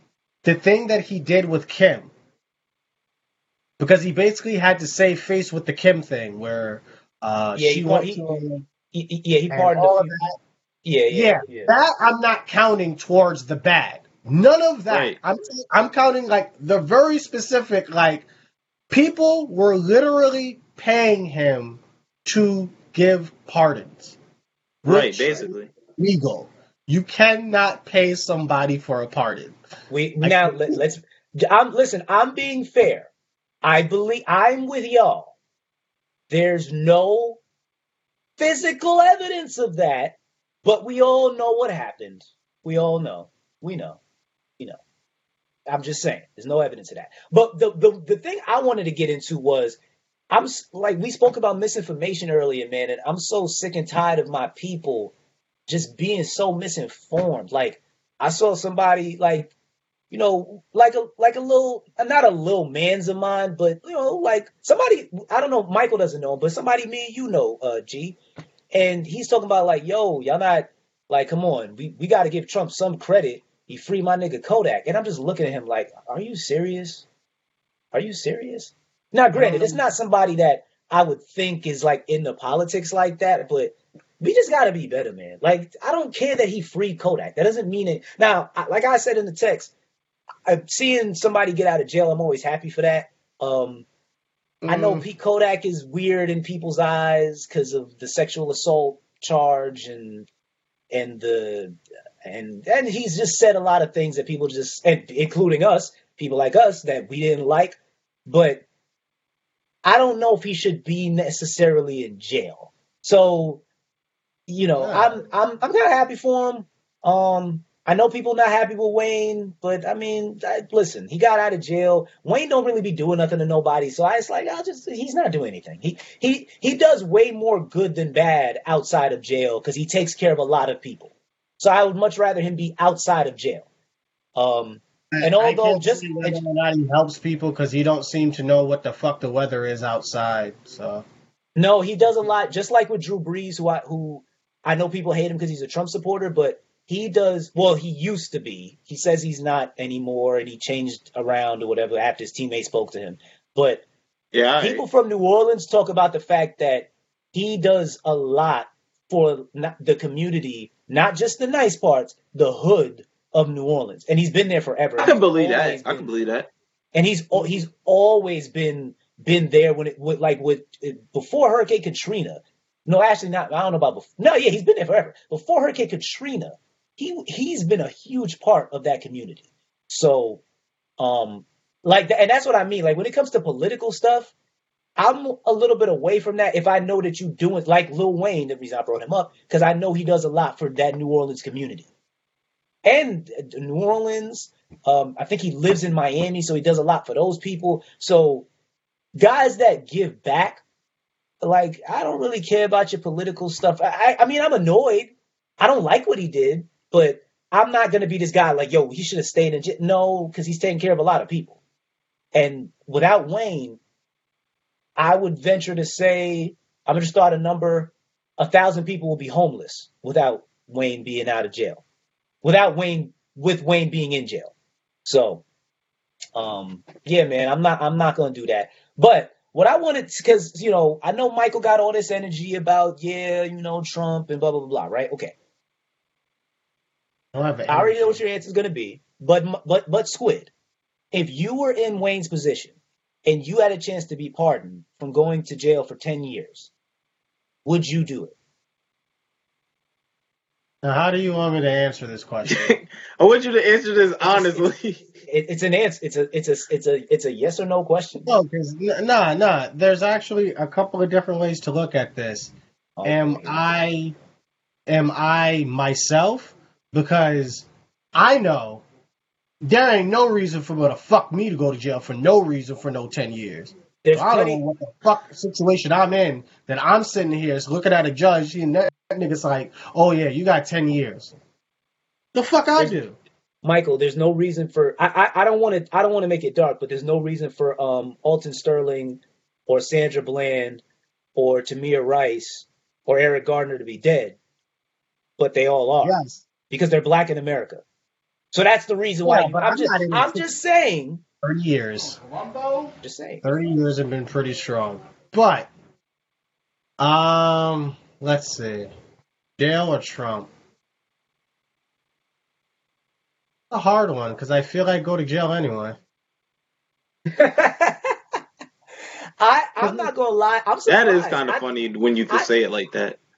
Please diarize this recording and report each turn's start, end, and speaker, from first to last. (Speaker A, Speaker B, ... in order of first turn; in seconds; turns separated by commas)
Speaker A: 0.4-2.1, Speaker A: 3.8-8.6, Speaker B: 7.5-10.2, Speaker A: 9.5-10.4, Speaker B: 10.8-11.7, Speaker A: 11.1-18.2, Speaker C: 14.9-15.2, Speaker A: 18.9-24.2, Speaker C: 24.8-25.7, Speaker A: 24.8-29.6, Speaker B: 29.9-33.1, Speaker A: 30.2-30.8, Speaker B: 33.6-35.3, Speaker B: 36.3-37.4, Speaker B: 38.4-44.0, Speaker B: 45.7-49.8, Speaker B: 50.3-55.1, Speaker B: 55.7-59.5, Speaker B: 60.1-68.2, Speaker B: 68.7-77.0, Speaker B: 77.9-89.7, Speaker A: 79.4-79.8, Speaker B: 90.5-93.9, Speaker A: 94.6-95.0, Speaker B: 94.7-100.3, Speaker B: 100.9-108.6, Speaker B: 109.8-113.6, Speaker B: 114.5-133.7, Speaker A: 114.8-115.2, Speaker B: 134.3-136.4, Speaker A: 135.1-141.1, Speaker B: 141.5-153.8, Speaker C: 154.3-154.8, Speaker B: 154.6-166.1, Speaker C: 165.0-166.5, Speaker B: 166.9-180.4, Speaker B: 181.0-184.3, Speaker B: 185.0-191.9, Speaker B: 192.8-198.5, Speaker B: 199.1-200.6, Speaker B: 201.4-211.6, Speaker B: 212.3-213.8, Speaker B: 215.0-221.8, Speaker B: 222.4-224.5, Speaker B: 225.0-225.4, Speaker B: 226.3-235.3, Speaker A: 237.3-238.2, Speaker B: 237.7-240.5, Speaker B: 241.1-246.7, Speaker B: 247.6-248.3, Speaker A: 250.8-252.8, Speaker C: 252.4-255.0, Speaker B: 254.2-254.7, Speaker B: 255.3-258.3, Speaker A: 258.3-262.5, Speaker B: 263.0-263.8, Speaker A: 263.0-264.1, Speaker A: 264.9-268.8, Speaker A: 269.6-281.4, Speaker B: 274.0-274.6, Speaker A: 282.3-283.2, Speaker B: 283.6-290.8, Speaker B: 291.4-294.4, Speaker B: 295.4-296.2, Speaker A: 296.0-296.4, Speaker B: 296.7-297.8, Speaker B: 298.5-301.2, Speaker A: 299.2-300.5, Speaker A: 301.4-305.7, Speaker B: 303.0-303.4, Speaker A: 307.0-308.9, Speaker A: 309.6-310.5, Speaker A: 313.7-316.0, Speaker B: 317.3-318.1, Speaker B: 319.4-321.6, Speaker A: 319.8-320.1, Speaker C: 320.9-323.2